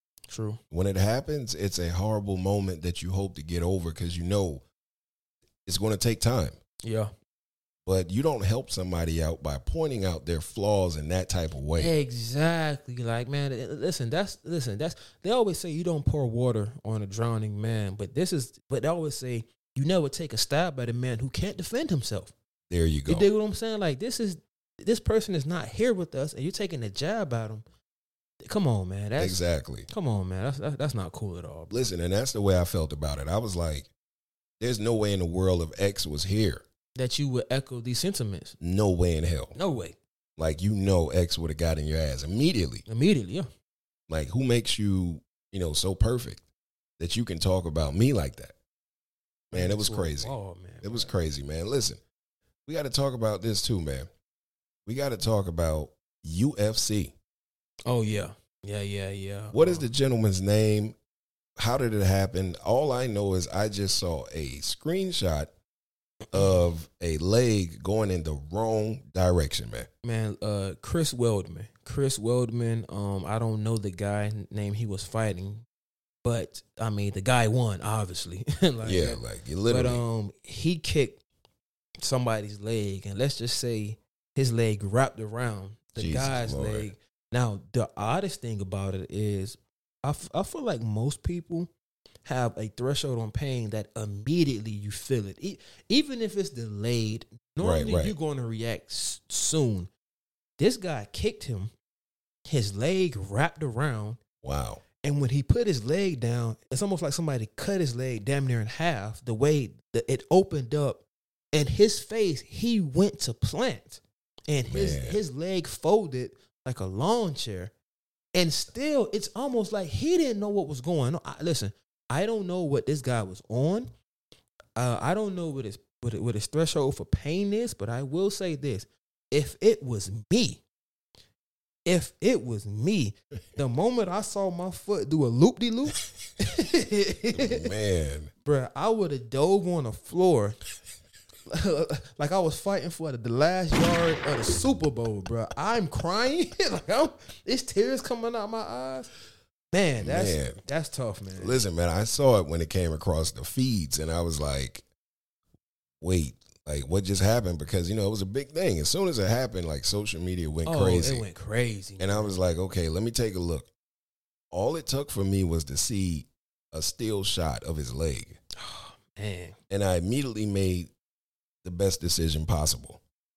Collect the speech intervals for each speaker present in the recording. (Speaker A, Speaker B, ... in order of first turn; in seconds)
Speaker A: 0.3-0.6, 6.8-7.1, 11.8-22.3, 23.1-27.6, 28.4-31.8, 37.0-38.6, 39.5-40.0, 42.9-43.5, 49.5-51.1, 57.9-59.9, 70.0-75.7, 76.2-81.2, 82.0-91.7, 92.2-99.9, 100.6-101.7, 102.5-104.2, 105.0-117.7, 118.3-123.9, 124.8-130.6, 131.9-137.7, 138.4-140.6, 141.5-149.1, 149.7-151.6, 160.7-162.3, 168.6-169.6
Speaker B: 0.7-4.6, 5.7-6.6, 7.9-11.9, 22.7-23.3, 29.2-29.9, 31.7-33.9, 34.6-36.6, 38.6-39.6, 40.4-42.9, 44.1-46.4, 47.0-48.5, 49.5-52.0, 52.7-54.1, 54.9-57.1, 59.5-61.0, 61.6-65.5, 66.3-69.9, 78.8-80.0, 86.0-86.9, 97.6-98.2, 104.4-104.8, 114.7-115.2, 137.3-138.3, 150.0-150.6, 151.4-154.8, 156.0-161.3, 162.0-163.7, 164.5-168.4, 169.7-170.9, 171.6-173.0